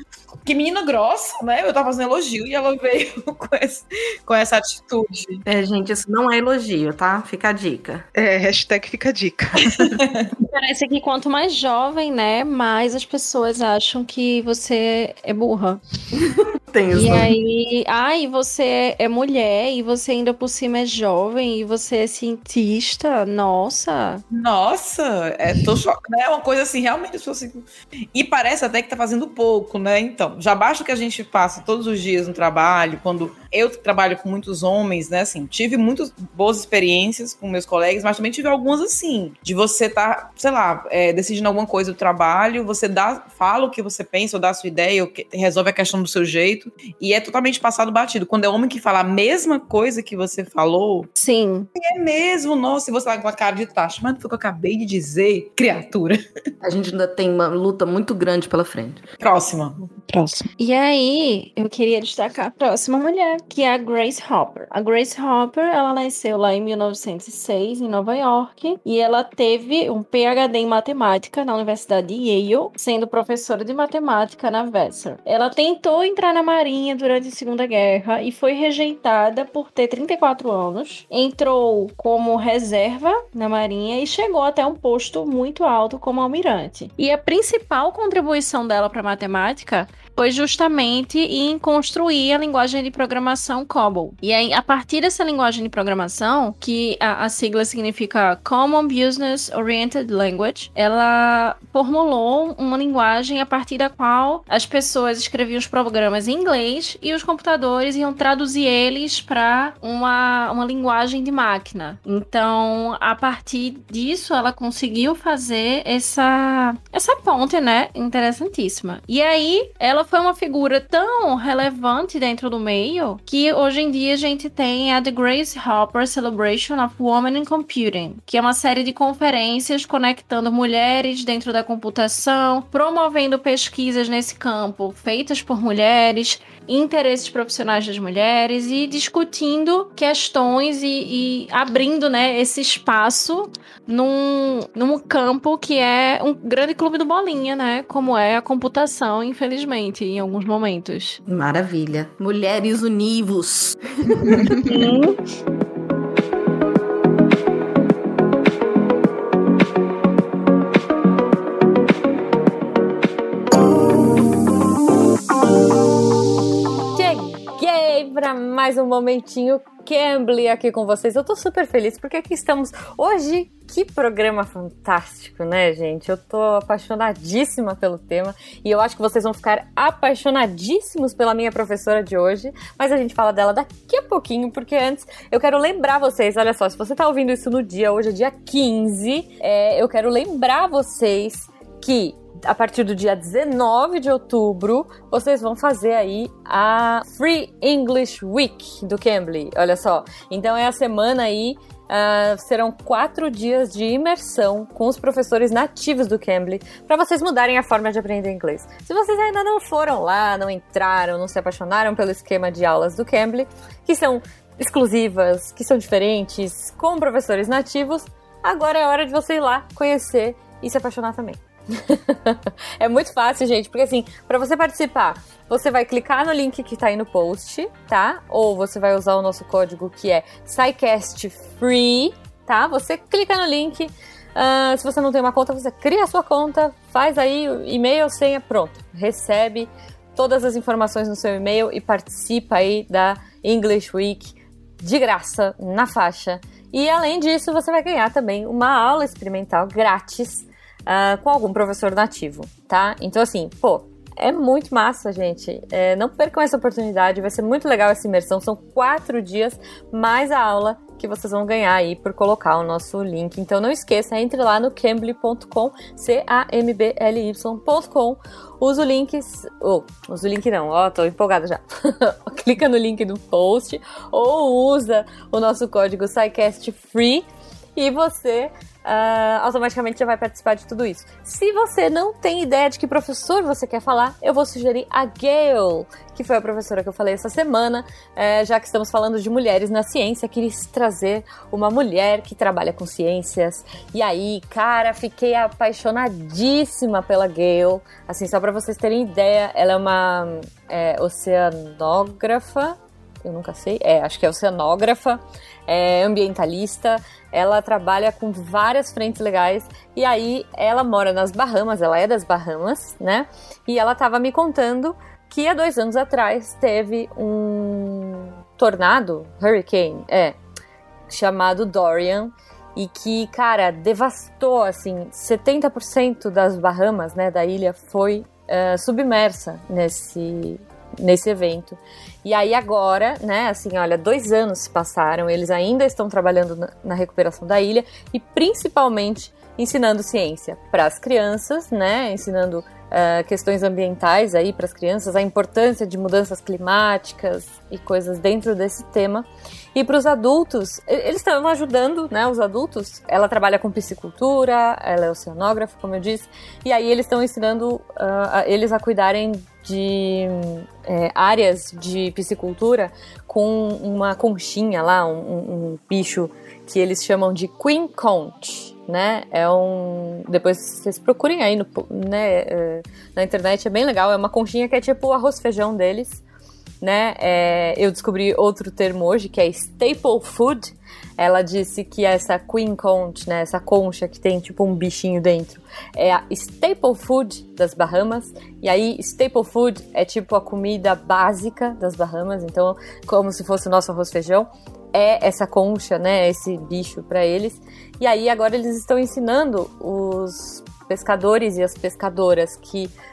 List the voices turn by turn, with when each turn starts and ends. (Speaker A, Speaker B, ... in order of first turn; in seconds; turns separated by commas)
Speaker A: 0.5-5.4, Speaker B: 5.5-8.1, Speaker C: 8.1-10.0, Speaker A: 10.0-10.3, Speaker D: 10.5-15.8, Speaker B: 16.2-17.3, Speaker D: 16.9-24.2, Speaker A: 24.3-51.1, Speaker D: 51.2-51.7, Speaker A: 51.8-56.2, Speaker B: 56.6-59.0, Speaker A: 59.2-59.8, Speaker C: 60.0-60.5, Speaker D: 60.6-151.2, Speaker B: 151.3-154.9, Speaker C: 154.2-154.6, Speaker D: 154.6-155.2, Speaker E: 166.9-320.4, Speaker E: 321.1-376.2, Speaker E: 376.8-402.9